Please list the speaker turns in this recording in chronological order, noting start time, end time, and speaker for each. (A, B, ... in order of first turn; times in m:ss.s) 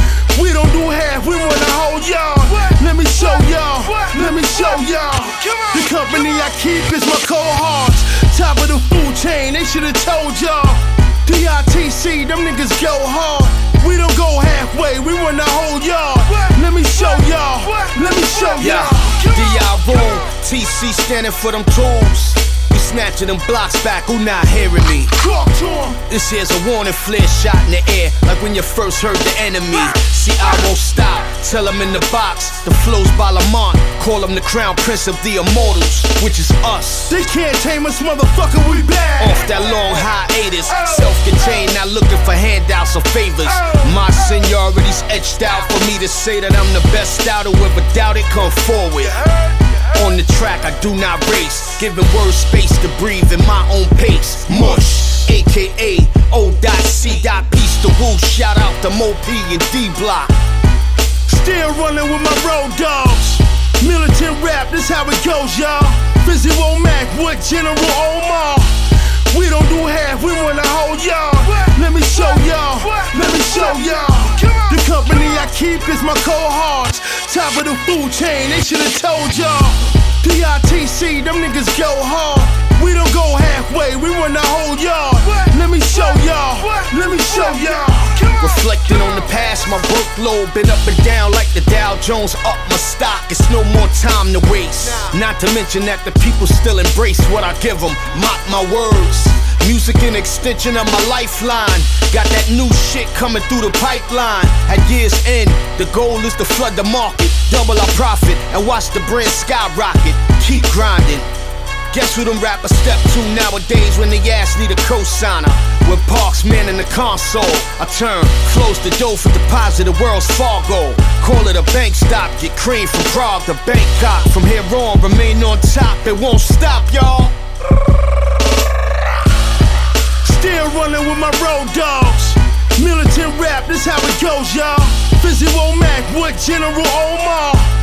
0:00.4-0:20.2 A
0:18.6-0:25.1 B
0:25.3-0:25.9 A
0:26.1-0:37.1 B
0:37.4-0:39.0 C
0:38.6-0:39.4 A
0:39.2-0:49.1 B
0:50.0-1:00.3 B
1:05.9-1:06.1 A
1:07.4-1:08.7 A
1:09.4-1:19.7 A
1:12.1-1:14.0 C
1:20.3-1:20.8 A
1:22.9-1:28.5 A
1:25.9-1:27.8 C
1:28.6-1:51.3 B
1:51.9-2:07.3 B
2:10.6-2:12.1 C
2:12.8-2:17.2 C